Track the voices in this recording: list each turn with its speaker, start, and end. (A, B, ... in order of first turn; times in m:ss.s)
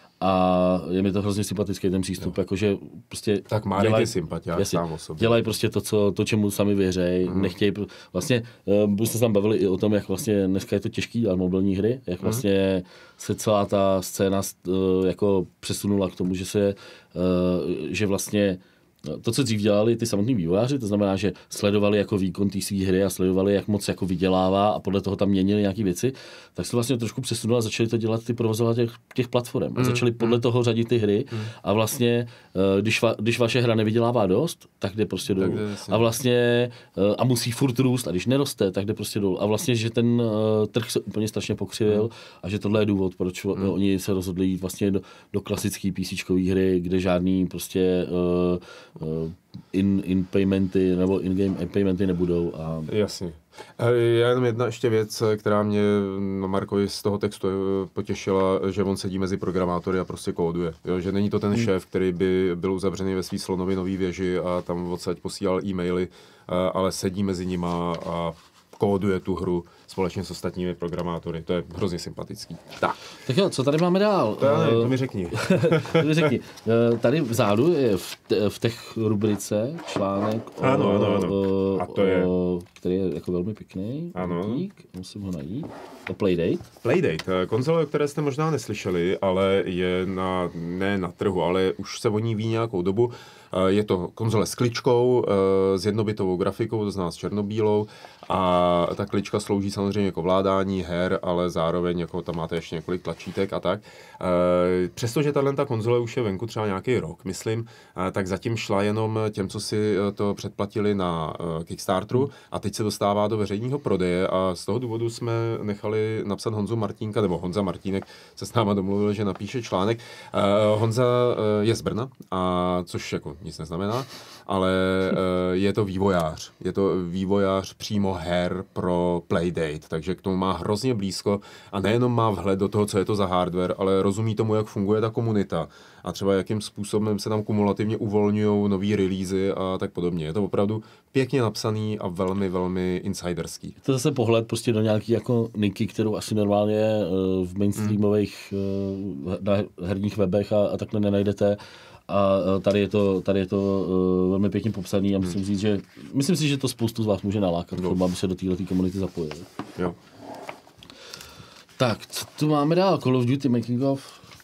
0:00.2-0:52.9 A
0:03.5-0:05.5 B
0:07.2-0:07.5 B
0:29.8-0:30.4 B
0:35.4-0:36.1 B
0:52.9-1:13.0 B
1:13.2-1:26.7 A
1:14.4-1:16.3 B
1:20.6-1:22.3 B
1:24.1-1:24.6 B
1:26.8-2:23.8 B
2:23.8-2:39.5 A
2:37.8-2:38.0 B
2:41.8-2:44.2 A